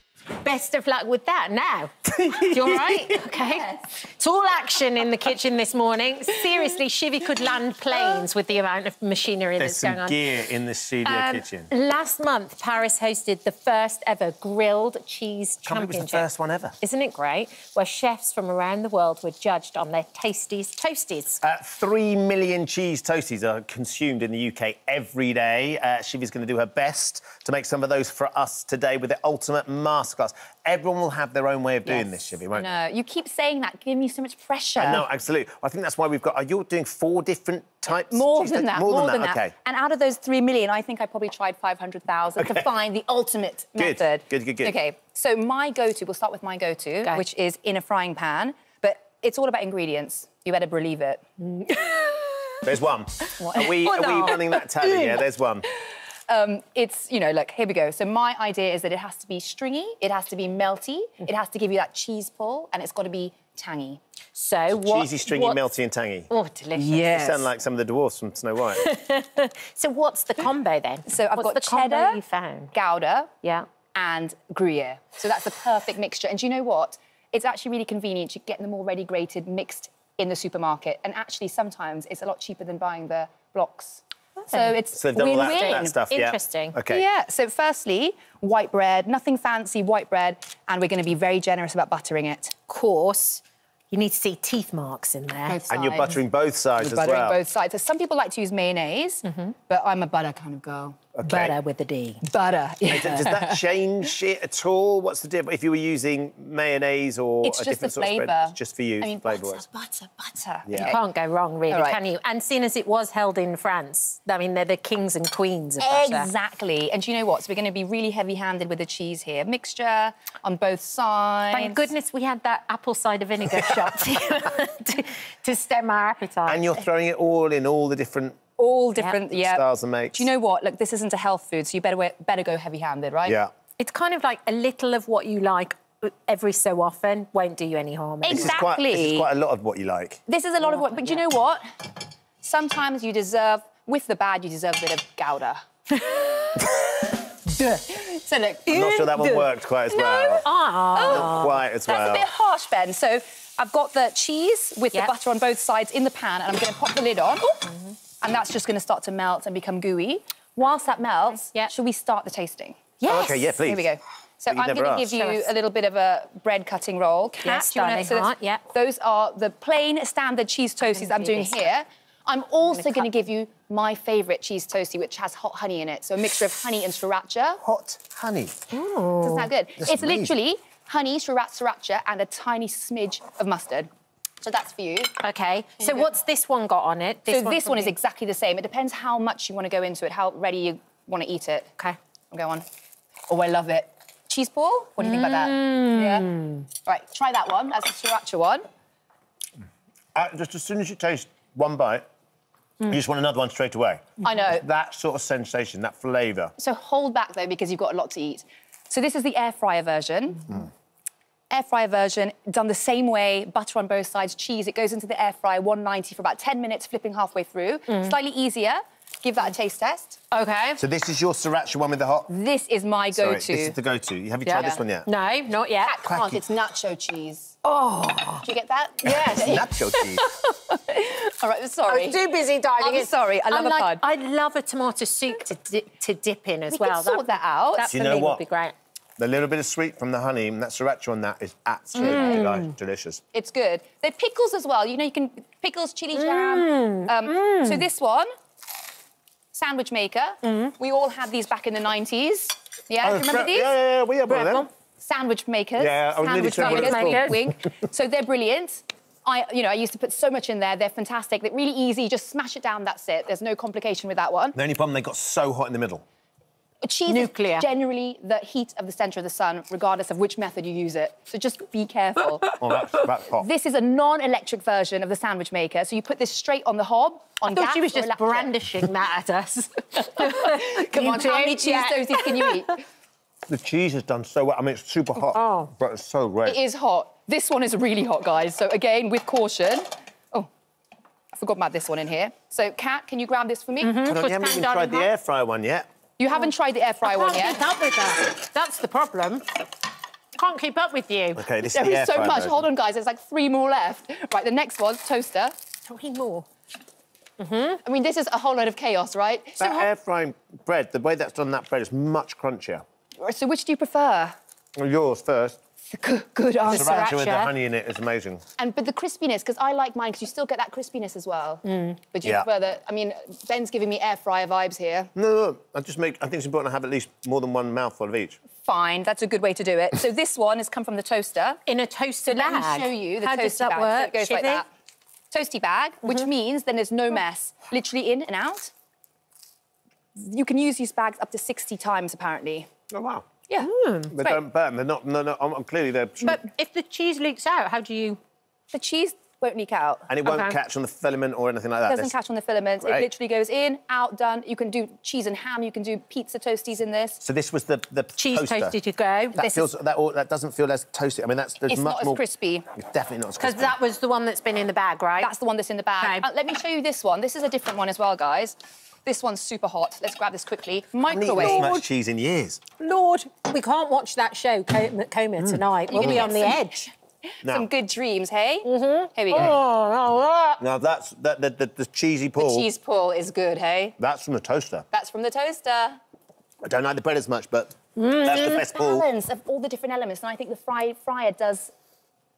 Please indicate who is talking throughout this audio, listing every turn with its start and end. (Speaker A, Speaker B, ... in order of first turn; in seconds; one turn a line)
Speaker A: 0.4-1.9
Speaker B: 2.2-3.3
Speaker A: 2.5-10.2
Speaker C: 3.3-3.8
Speaker B: 9.6-11.7
Speaker A: 11.0-16.3
Speaker B: 15.7-16.8
Speaker A: 16.8-21.4
Speaker B: 21.4-32.8
Speaker C: 31.9-35.0
Speaker B: 34.8-39.5
Speaker C: 37.9-51.2
Speaker B: 43.8-44.7
Speaker A: 51.4-52.6
Speaker B: 52.6-55.7
Speaker A: 53.2-53.6
Speaker C: 53.4-54.6
Speaker C: 56.3-64.0
Speaker A: 64.3-65.6
Speaker B: 64.7-66.3
Speaker A: 66.3-67.1
Speaker C: 66.8-67.5
Speaker B: 67.1-68.9
Speaker A: 68.8-72.7
Speaker C: 71.1-72.2
Speaker C: 72.7-73.3
Speaker C: 73.9-86.0
Speaker B: 85.0-87.0
Speaker A: 85.5-86.8
Speaker C: 86.9-92.5
Speaker A: 92.7-95.6
Speaker C: 95.5-96.2
Speaker B: 95.7-97.4
Speaker C: 96.8-101.4
Speaker A: 99.3-99.5
Speaker B: 101.1-101.5
Speaker A: 101.3-102.2
Speaker C: 102.3-103.6
Speaker B: 102.9-109.6
Speaker C: 107.4-111.0
Speaker B: 110.7-111.0
Speaker A: 110.8-116.3
Speaker C: 111.7-112.0
Speaker C: 115.8-121.9
Speaker A: 121.5-126.7
Speaker B: 126.5-128.5
Speaker C: 128.6-133.4
Speaker B: 129.3-130.3
Speaker B: 133.3-133.5
Speaker A: 133.8-138.6
Speaker C: 138.2-139.3
Speaker B: 138.3-140.2
Speaker C: 140.3-141.6
Speaker A: 140.6-141.2
Speaker C: 142.4-145.6
Speaker C: 147.6-148.8
Speaker B: 148.7-150.4
Speaker A: 148.7-149.5
Speaker C: 149.9-157.7
Speaker A: 150.4-151.6
Speaker B: 151.1-152.3
Speaker C: 158.2-177.6
Speaker B: 163.1-163.9
Speaker B: 164.5-165.2
Speaker A: 165.2-165.5
Speaker A: 167.4-168.6
Speaker A: 170.8-171.7
Speaker A: 172.8-173.1
Speaker B: 177.6-178.6
Speaker A: 178.7-179.5
Speaker C: 179.2-183.9
Speaker B: 179.8-180.3
Speaker C: 184.4-185.1
Speaker A: 185.2-187.9
Speaker C: 187.3-191.7
Speaker C: 192.3-192.7
Speaker C: 193.3-196.3
Speaker A: 195.0-196.7
Speaker C: 196.9-198.6
Speaker B: 200.2-202.1
Speaker B: 202.8-206.5
Speaker C: 204.2-204.7
Speaker C: 206.6-210.7
Speaker C: 211.5-220.2
Speaker A: 220.3-220.8
Speaker B: 220.8-222.3
Speaker C: 222.3-223.8
Speaker B: 223.1-225.1
Speaker A: 224.4-226.0
Speaker C: 225.8-227.6
Speaker B: 226.1-226.4
Speaker A: 227.6-228.5
Speaker C: 228.4-232.2
Speaker B: 229.0-230.2
Speaker A: 231.9-238.7
Speaker C: 232.8-234.0
Speaker C: 236.7-237.9
Speaker B: 237.9-238.4
Speaker B: 239.2-243.2
Speaker C: 241.9-242.6
Speaker A: 242.0-242.6
Speaker C: 243.3-248.3
Speaker A: 246.2-247.9
Speaker C: 249.5-253.8
Speaker A: 250.5-250.7
Speaker B: 253.0-254.7
Speaker A: 254.3-254.7
Speaker C: 255.0-264.6
Speaker B: 255.8-257.4
Speaker A: 256.5-257.5
Speaker B: 264.6-266.0
Speaker C: 266.8-272.6
Speaker A: 267.1-267.7
Speaker B: 272.5-273.5
Speaker C: 273.3-278.5
Speaker A: 277.4-282.6
Speaker C: 280.2-282.8
Speaker B: 283.5-286.6
Speaker A: 285.4-285.7
Speaker C: 286.4-290.5
Speaker C: 291.3-294.0
Speaker A: 293.8-295.1
Speaker B: 294.0-295.9
Speaker C: 296.2-297.6
Speaker A: 297.0-299.4
Speaker A: 300.4-301.4
Speaker B: 301.4-302.6
Speaker C: 301.6-305.6
Speaker A: 305.9-306.5
Speaker A: 307.4-307.8
Speaker C: 307.9-309.9
Speaker B: 309.6-312.9
Speaker C: 313.2-314.4
Speaker B: 314.8-315.6
Speaker C: 315.9-317.1
Speaker A: 316.7-317.5
Speaker B: 316.7-318.4
Speaker C: 318.6-325.1
Speaker A: 321.6-322.0
Speaker B: 325.1-328.4
Speaker C: 328.6-331.6
Speaker A: 331.7-334.6
Speaker C: 332.3-334.7
Speaker C: 335.3-338.7
Speaker C: 340.2-342.7
Speaker B: 342.9-343.3
Speaker A: 343.6-344.1
Speaker B: 344.1-346.4
Speaker A: 346.2-348.2
Speaker C: 348.7-350.1
Speaker B: 350.1-352.1
Speaker A: 350.2-350.6
Speaker C: 351.9-357.2
Speaker B: 352.8-353.1
Speaker B: 357.2-358.8
Speaker A: 358.2-359.4
Speaker B: 359.4-362.2
Speaker C: 359.4-359.7
Speaker C: 361.6-362.7
Speaker B: 362.7-363.8
Speaker A: 363.4-365.3
Speaker C: 365.2-371.7
Speaker A: 366.0-366.3
Speaker B: 371.1-372.6
Speaker A: 371.4-371.9
Speaker A: 372.8-376.9
Speaker B: 375.4-376.3
Speaker C: 375.9-376.7
Speaker B: 377.4-377.7
Speaker C: 377.4-379.5
Speaker A: 378.6-380.6
Speaker B: 380.6-382.7
Speaker C: 382.4-384.0
Speaker B: 384.0-384.9
Speaker C: 384.9-386.0
Speaker B: 386.6-389.1
Speaker A: 388.0-388.6
Speaker C: 388.3-391.7